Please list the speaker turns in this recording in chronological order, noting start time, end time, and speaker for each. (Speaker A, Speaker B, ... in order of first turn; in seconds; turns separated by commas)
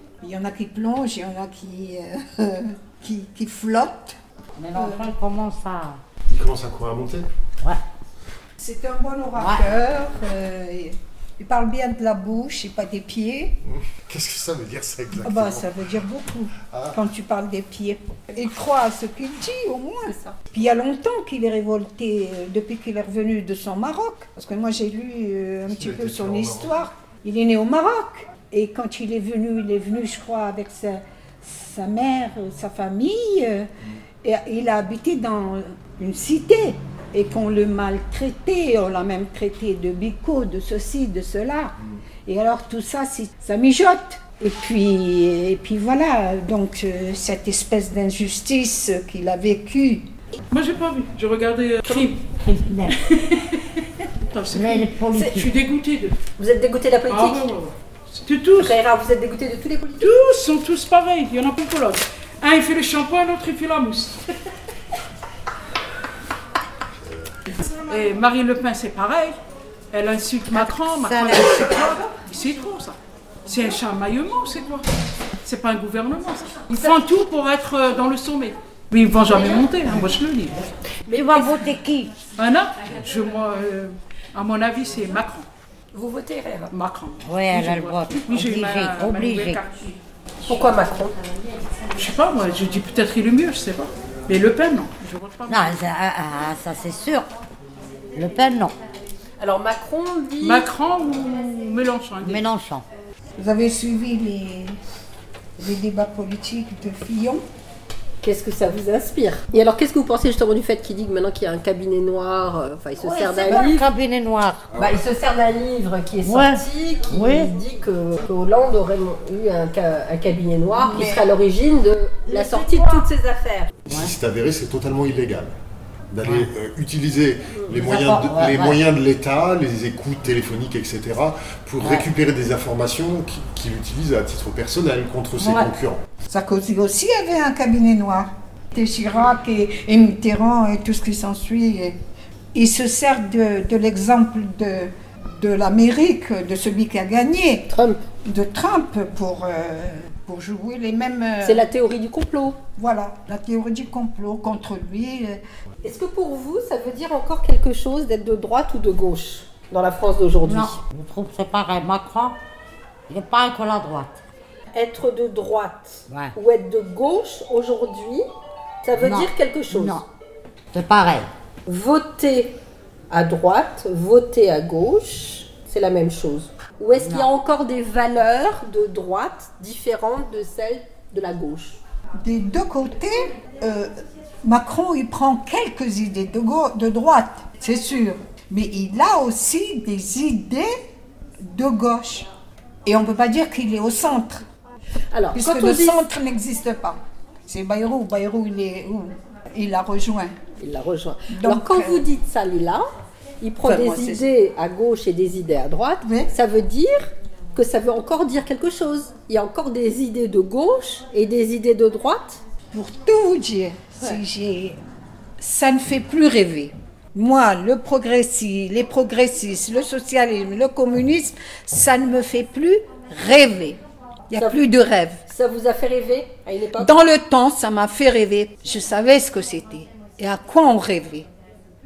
Speaker A: 0.2-4.2, Speaker B: 4.6-6.0, Speaker A: 4.7-5.1, Speaker C: 6.3-7.3, Speaker A: 8.6-13.6, Speaker C: 13.7-15.7, Speaker A: 15.2-33.7, Speaker C: 16.6-17.0, Speaker D: 20.1-20.4, Speaker C: 25.7-26.8, Speaker A: 34.2-41.7, Speaker A: 42.2-50.1, Speaker E: 50.5-52.3, Speaker B: 52.4-52.9, Speaker E: 52.9-56.1, Speaker B: 54.5-55.5, Speaker D: 56.4-57.5, Speaker E: 57.1-58.8, Speaker D: 58.6-60.1, Speaker E: 60.0-64.2, Speaker C: 67.0-67.3, Speaker E: 67.7-69.4, Speaker E: 69.9-74.8, Speaker B: 70.6-71.8, Speaker E: 75.4-80.7, Speaker D: 81.1-81.7, Speaker B: 81.1-82.1, Speaker E: 82.3-85.5, Speaker D: 85.9-86.7, Speaker E: 86.7-90.0, Speaker B: 87.2-89.6, Speaker D: 90.4-91.2, Speaker E: 91.9-95.8, Speaker B: 95.5-97.3, Speaker B: 98.1-98.7, Speaker D: 99.4-100.7, Speaker E: 100.4-102.4, Speaker B: 102.2-102.8, Speaker A: 103.4-104.8, Speaker A: 105.6-107.4, Speaker D: 108.2-113.9, Speaker B: 113.0-114.7, Speaker D: 114.8-123.7, Speaker B: 116.2-117.5, Speaker A: 120.8-121.3, Speaker B: 122.3-123.0, Speaker C: 123.8-125.5, Speaker C: 126.1-136.0, Speaker B: 127.8-128.8, Speaker B: 131.8-132.1, Speaker B: 135.4-135.7, Speaker A: 136.2-142.0, Speaker A: 142.5-147.7, Speaker D: 147.7-148.0, Speaker A: 148.2-151.7, Speaker D: 151.4-152.6, Speaker A: 152.8-155.4, Speaker D: 155.8-160.8, Speaker B: 160.4-162.4, Speaker B: 163.1-164.2, Speaker D: 164.7-168.2, Speaker B: 166.1-166.3, Speaker D: 168.8-170.1, Speaker B: 168.9-170.0, Speaker B: 170.7-171.3, Speaker D: 171.7-172.6, Speaker D: 173.1-181.8, Speaker B: 177.0-177.3, Speaker A: 182.2-183.9, Speaker A: 184.4-190.7, Speaker A: 191.4-192.3, Speaker A: 192.8-194.4, Speaker D: 195.1-196.0, Speaker A: 195.3-200.3, Speaker D: 200.6-202.8, Speaker A: 201.3-202.1, Speaker D: 203.4-212.4, Speaker A: 203.6-204.3, Speaker A: 206.0-206.3, Speaker A: 212.7-214.8, Speaker A: 215.4-225.2, Speaker D: 225.3-226.9, Speaker A: 226.8-231.3